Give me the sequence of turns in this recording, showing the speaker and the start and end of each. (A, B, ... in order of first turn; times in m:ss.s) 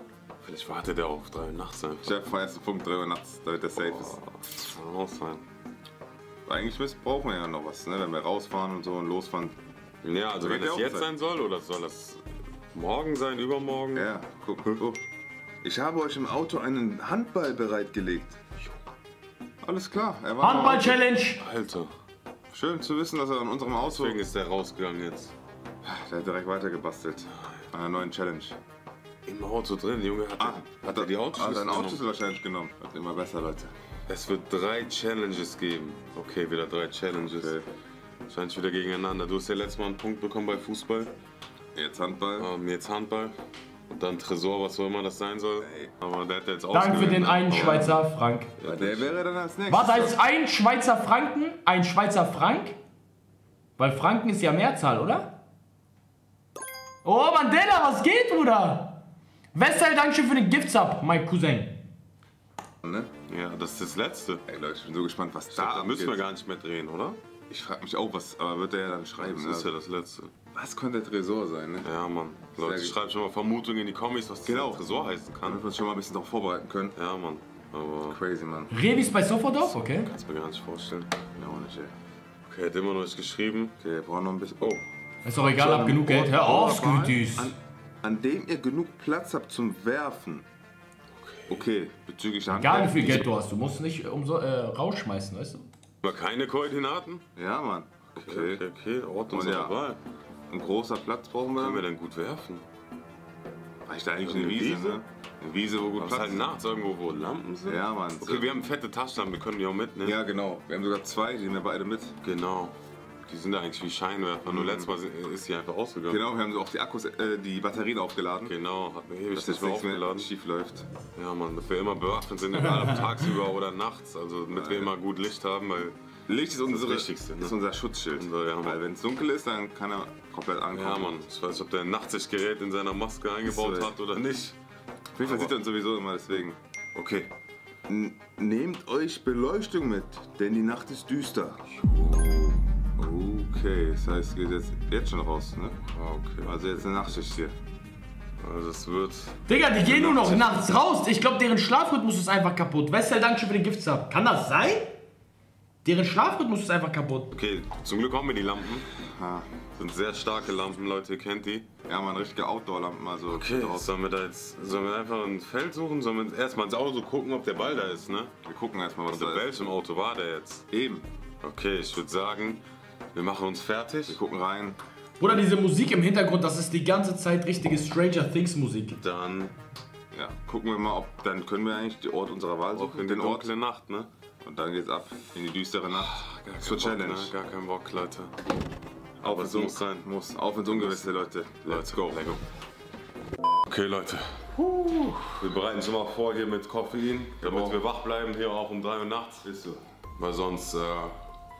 0:00.4-0:02.1 A
0:02.0-0:04.2 B
0:03.8-0:05.4 A
0:06.5-0:09.6 B
0:10.0-0:12.2 A
0:10.4-0:11.1 B
0:12.7-0:14.1 A
0:13.9-0:15.0 B
0:15.6-0:18.4 B
0:19.6-0:21.0 B
0:20.4-0:21.4 C
0:21.4-0:21.9 A
0:22.5-0:24.2 B
0:23.8-0:25.3 A
0:25.8-0:28.6 B
0:27.3-0:27.6 A
0:29.3-0:32.0 A
0:30.4-0:33.7 B
0:34.1-0:37.6 A
0:37.2-0:37.7 B
0:38.3-0:41.1 A
0:41.8-0:42.5 B
0:42.4-0:43.4 A
0:43.9-0:48.0 A
0:45.6-0:45.9 B
0:46.7-0:48.5 C
0:48.6-0:49.2 A
0:48.6-0:50.2 B
0:49.7-0:52.8 C
0:53.8-0:55.4 C
0:57.0-0:59.0 C
0:59.6-1:01.8 C
1:02.8-1:03.1 B
1:03.3-1:04.4 A
1:04.5-1:06.2 B
1:05.5-1:07.2 A
1:07.5-1:09.7 B
1:09.2-1:10.3 A
1:10.5-1:11.9 B
1:11.8-1:15.6 A
1:12.6-1:13.0 B
1:14.4-1:14.8 B
1:15.4-1:17.0 B
1:17.0-1:18.2 A
1:18.1-1:18.7 B
1:18.7-1:20.1 C
1:19.6-1:21.1 A
1:21.4-1:21.9 B
1:22.5-1:23.8 A
1:23.8-1:30.5 B
1:25.2-1:27.5 C
1:31.1-1:31.6 A
1:31.5-1:33.3 B
1:32.6-1:35.7 C
1:36.0-1:37.2 A
1:37.4-1:38.6 B
1:38.2-1:40.0 A
1:39.3-1:39.8 B
1:40.5-1:41.9 B
1:41.6-1:42.6 A
1:43.9-1:46.5 B
1:44.2-1:45.0 A
1:46.0-1:50.2 A
1:47.6-1:48.5 B
1:50.0-1:52.2 B
1:52.2-1:52.8 A
1:53.3-1:56.2 A
1:54.5-1:54.9 B
1:56.1-1:58.5 B
1:58.4-2:00.3 A
1:59.3-2:00.9 B
2:01.2-2:06.0 A
2:04.5-2:04.9 B
2:06.3-2:11.2 B
2:06.6-2:07.6 A
2:08.2-2:08.8 A
2:10.7-2:14.6 A
2:13.4-2:13.9 B
2:15.2-2:16.6 B
2:15.2-2:15.6 A
2:16.9-2:17.3 A
2:17.9-2:21.6 B
2:21.7-2:22.6 A
2:23.0-2:25.8 B
2:25.8-2:26.6 A
2:26.4-2:27.6 B
2:28.4-2:30.7 A
2:29.5-2:35.0 C
2:35.8-2:37.3 C
2:37.3-2:38.9 A
2:39.0-2:39.5 B
2:39.8-2:41.7 A
2:41.9-2:43.9 B
2:43.3-2:48.3 A
2:48.4-2:49.7 B
2:49.1-2:50.7 A
2:50.7-2:51.1 B
2:51.4-2:52.6 A
2:53.1-2:54.2 A
2:54.1-2:54.8 B
2:55.2-2:59.0 C
2:59.0-2:59.6 A
3:00.1-3:03.5 B
3:02.7-3:04.1 A
3:04.4-3:07.3 B
3:06.0-3:08.3 A
3:09.2-3:10.1 A
3:09.2-3:12.3 B
3:10.7-3:12.4 A
3:13.7-3:14.5 A
3:14.6-3:15.4 B
3:15.3-3:19.5 A
3:17.4-3:17.8 B
3:19.4-3:19.8 B
3:20.2-3:21.2 A